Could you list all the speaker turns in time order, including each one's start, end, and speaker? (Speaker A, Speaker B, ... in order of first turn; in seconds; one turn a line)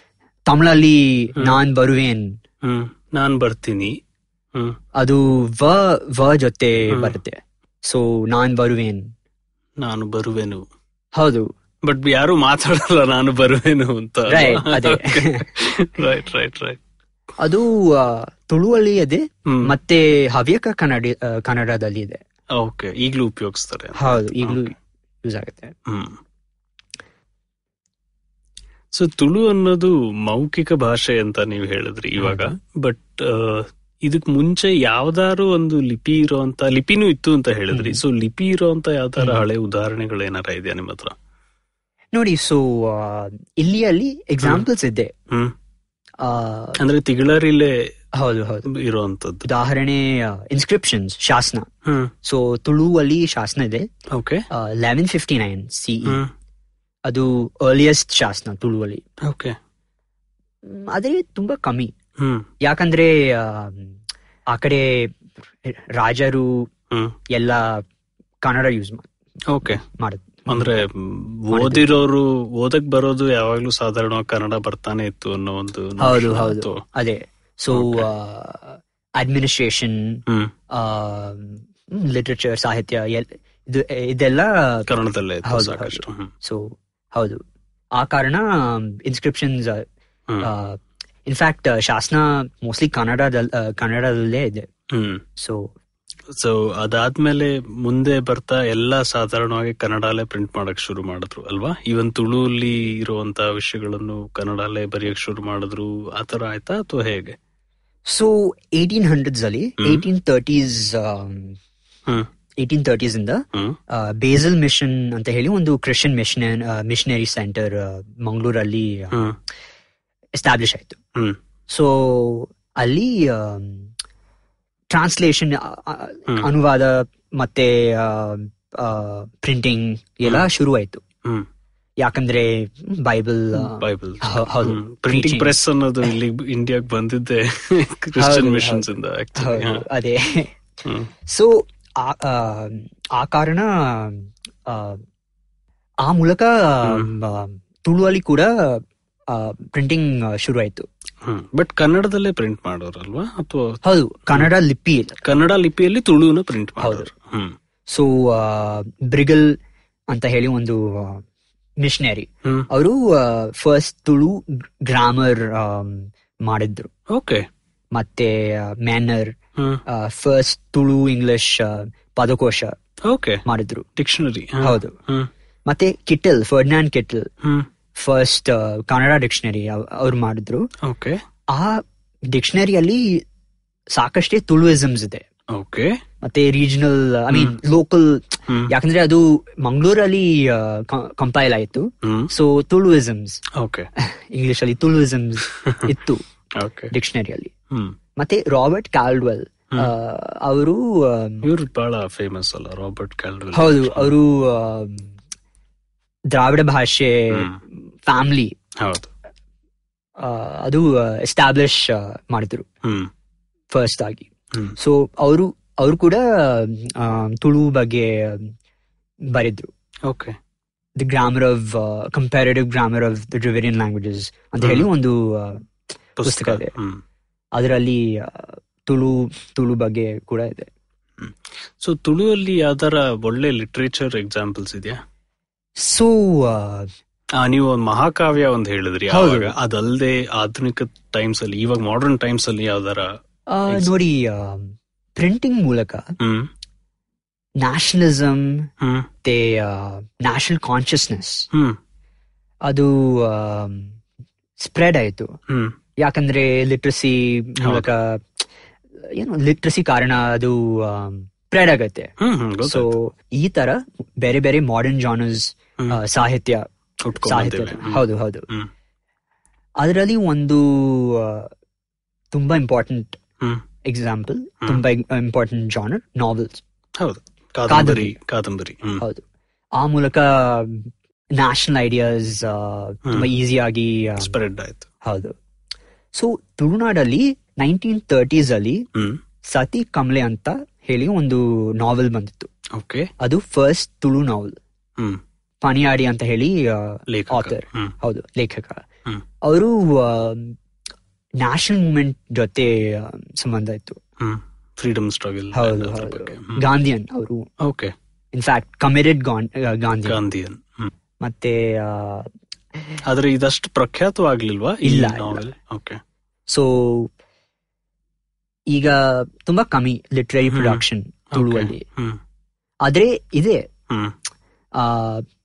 Speaker A: 0.5-2.3
Speaker B: 2.6-4.0
Speaker A: 5.0-9.0
Speaker B: 6.9-7.2
Speaker B: 9.8-10.6
Speaker A: 11.2-11.5
Speaker B: 11.8-16.8
Speaker A: 14.3-15.4
Speaker A: 17.4-22.2
Speaker B: 19.5-19.7
Speaker B: 22.6-24.7
Speaker A: 24.0-25.7
Speaker B: 25.9-26.2
Speaker B: 28.9-41.1
Speaker A: 32.2-32.5
Speaker A: 37.7-38.0
Speaker A: 42.1-45.1
Speaker A: 46.2-46.8
Speaker B: 46.8-47.7
Speaker A: 48.2-48.7
Speaker B: 48.6-49.4
Speaker A: 49.4-51.7
Speaker B: 51.8-52.1
Speaker A: 52.2-53.9
Speaker B: 54.1-54.4
Speaker A: 54.5-56.2
Speaker B: 56.0-56.3
Speaker A: 57.1-59.0
Speaker B: 59.2-59.5
Speaker A: 60.6-61.9
Speaker B: 62.2-62.5
Speaker A: 62.6-63.9
Speaker A: 64.5-65.1
Speaker A: 65.7-66.7
Speaker A: 67.3-67.8
Speaker A: 68.4-69.1
Speaker B: 69.5-69.8
Speaker A: 69.7-70.8
Speaker B: 70.5-76.8
Speaker A: 71.5-71.9
Speaker A: 76.0-80.2
Speaker B: 77.7-78.1
Speaker A: 80.7-84.9
Speaker B: 84.9-86.3
Speaker A: 85.4-87.4
Speaker A: 87.9-89.8
Speaker A: 90.4-94.7
Speaker B: 94.9-95.2
Speaker A: 95.4-95.7
Speaker B: 96.3-107.4
Speaker A: 108.1-111.6
Speaker B: 109.8-110.0
Speaker A: 112.6-119.2
Speaker A: 120.3-121.0
Speaker A: 121.7-123.9
Speaker A: 124.9-131.0
Speaker A: 132.0-135.5
Speaker B: 133.5-139.8
Speaker A: 138.2-140.5
Speaker B: 140.8-141.1
Speaker A: 141.3-145.0
Speaker A: 146.0-148.8
Speaker B: 146.8-147.1
Speaker A: 149.3-150.9
Speaker B: 151.2-153.8
Speaker A: 153.8-155.2
Speaker B: 155.2-157.5
Speaker A: 156.8-157.1
Speaker A: 157.9-159.5
Speaker A: 160.1-161.2
Speaker A: 161.8-166.9
Speaker B: 167.1-167.4
Speaker A: 167.9-169.3
Speaker A: 169.9-172.7
Speaker B: 173.1-173.4
Speaker A: 173.4-173.8
Speaker B: 173.9-175.3
Speaker A: 174.6-174.9
Speaker A: 175.7-177.3
Speaker A: 177.9-180.7
Speaker B: 180.8-181.2
Speaker A: 181.5-183.2
Speaker A: 183.9-185.2
Speaker B: 185.5-185.9
Speaker A: 186.2-193.4
Speaker B: 187.3-187.6
Speaker B: 192.0-192.3
Speaker B: 193.6-193.9
Speaker A: 194.0-196.2
Speaker B: 195.6-195.9
Speaker B: 196.6-196.9
Speaker A: 196.9-197.5
Speaker A: 198.2-201.4
Speaker B: 201.4-204.1
Speaker A: 203.5-205.1
Speaker A: 206.3-207.5
Speaker B: 207.3-207.6
Speaker A: 208.0-208.5
Speaker B: 208.8-209.1
Speaker A: 210.2-212.7
Speaker B: 212.8-213.1
Speaker A: 213.7-218.5
Speaker A: 219.3-219.7
Speaker B: 220.1-220.3
Speaker A: 221.0-225.6
Speaker B: 224.6-224.9
Speaker B: 226.2-227.0
Speaker A: 226.2-226.7
Speaker A: 227.5-230.7
Speaker B: 231.2-235.0
Speaker A: 235.8-236.9
Speaker B: 237.4-243.1
Speaker A: 239.1-239.5
Speaker A: 243.5-246.0
Speaker B: 243.7-243.9
Speaker B: 246.2-246.5
Speaker A: 247.6-248.7
Speaker B: 248.8-249.1
Speaker A: 249.2-251.5
Speaker B: 251.5-251.8
Speaker A: 252.7-253.9
Speaker A: 254.6-255.3
Speaker B: 255.5-255.7
Speaker A: 256.0-258.2
Speaker B: 257.6-257.9
Speaker A: 259.0-262.1
Speaker B: 262.2-262.9
Speaker A: 262.6-266.6
Speaker B: 267.0-268.7
Speaker A: 267.2-268.4
Speaker A: 269.8-271.5
Speaker A: 272.3-273.2
Speaker A: 273.8-276.6
Speaker B: 277.0-279.0
Speaker A: 277.7-278.1
Speaker A: 279.8-284.3
Speaker B: 284.2-284.9
Speaker A: 285.0-285.3
Speaker A: 286.1-288.8
Speaker B: 288.9-289.2
Speaker A: 289.4-292.5
Speaker B: 292.7-293.1
Speaker A: 293.2-294.6
Speaker A: 295.6-298.8
Speaker B: 297.1-297.9
Speaker A: 299.4-300.5
Speaker A: 301.4-304.0
Speaker B: 304.2-306.6
Speaker A: 305.5-307.5
Speaker B: 307.6-307.9
Speaker A: 308.3-310.2
Speaker B: 310.1-310.9
Speaker A: 311.2-312.3
Speaker B: 313.0-316.0
Speaker A: 314.8-315.5
Speaker A: 316.5-317.1
Speaker A: 318.7-321.8
Speaker B: 320.5-322.2
Speaker A: 322.8-323.6
Speaker B: 323.9-324.1
Speaker A: 324.7-325.2